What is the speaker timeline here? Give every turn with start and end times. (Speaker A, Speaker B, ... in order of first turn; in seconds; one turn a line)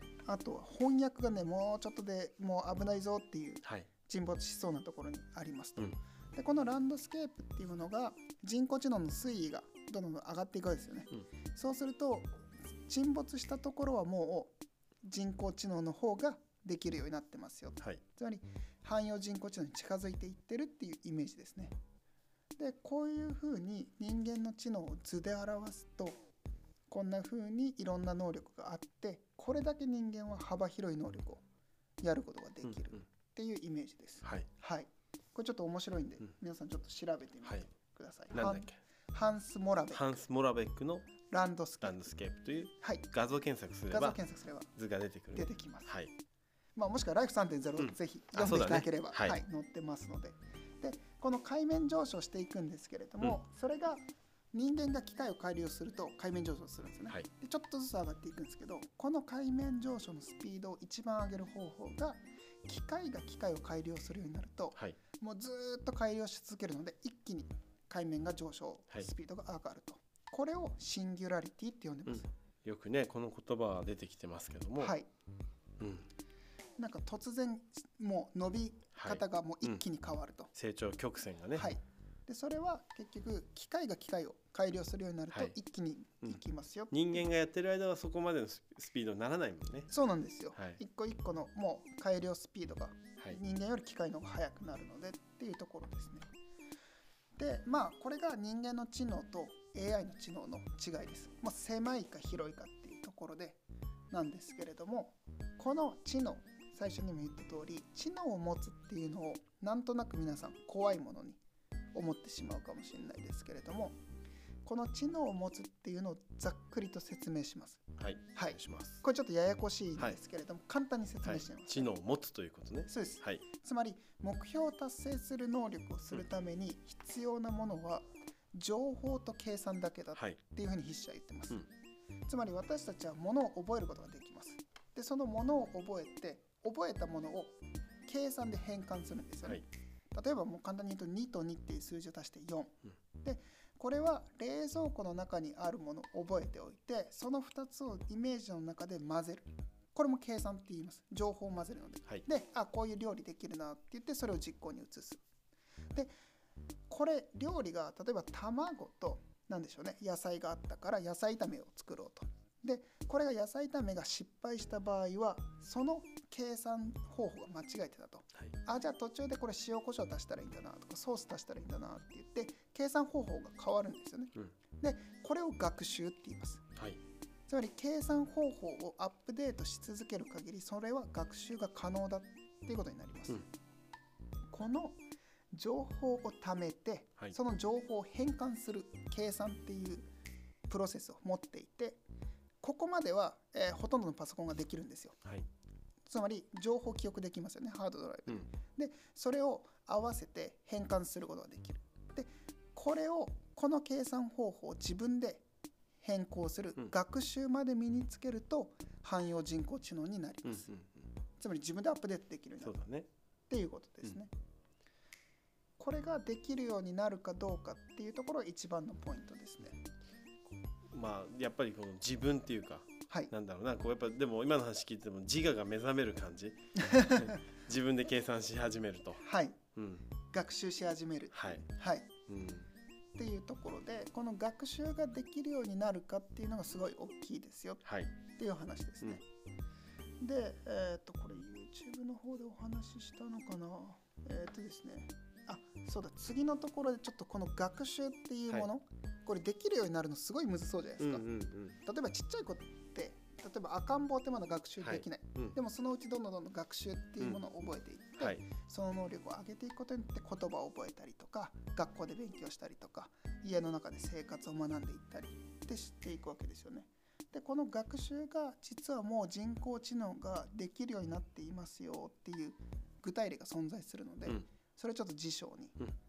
Speaker A: 0.2-21.7
Speaker A: 22.6-26.2
Speaker A: 26.9-31.4
Speaker A: 32.0-40.1
Speaker B: 38.3-38.8
Speaker B: 39.9-41.1
Speaker A: 41.3-42.1
Speaker B: 41.8-44.2
Speaker A: 42.8-43.1
Speaker A: 43.9-44.7
Speaker B: 44.8-46.1
Speaker A: 45.3-46.0
Speaker A: 46.8-72.3
Speaker B: 47.8-49.4
Speaker B: 72.1-74.9
Speaker A: 74.8-75.1
Speaker B: 75.8-76.1
Speaker A: 76.8-80.5
Speaker B: 79.0-79.8
Speaker B: 80.5-81.7
Speaker A: 81.5-87.2
Speaker B: 86.9-89.9
Speaker A: 89.9-96.3
Speaker B: 90.5-90.8
Speaker A: 97.4-111.4
Speaker A: 111.9-114.0
Speaker A: 114.6-117.8
Speaker B: 118.0-119.0
Speaker A: 118.3-121.9
Speaker B: 121.2-123.4
Speaker A: 122.9-131.7
Speaker A: 132.3-155.2
Speaker A: 156.9-176.7
Speaker A: 177.5-183.5
Speaker A: 184.5-190.1
Speaker A: 190.7-192.0
Speaker A: 192.6-195.2
Speaker A: 196.1-205.4
Speaker A: 206.0-210.7
Speaker B: 210.4-211.0
Speaker A: 211.4-212.8
Speaker B: 212.6-213.1
Speaker A: 213.5-214.3
Speaker A: 215.8-219.8
Speaker B: 220.9-229.2
Speaker A: 226.8-227.3
Speaker A: 229.2-229.6
Speaker B: 229.8-230.1
Speaker A: 230.2-232.1
Speaker B: 231.3-231.6
Speaker B: 232.3-232.7
Speaker A: 233.2-239.2
Speaker B: 237.8-238.2
Speaker A: 240.2-251.3
Speaker B: 251.0-251.8
Speaker A: 251.8-275.8
Speaker B: 254.8-255.6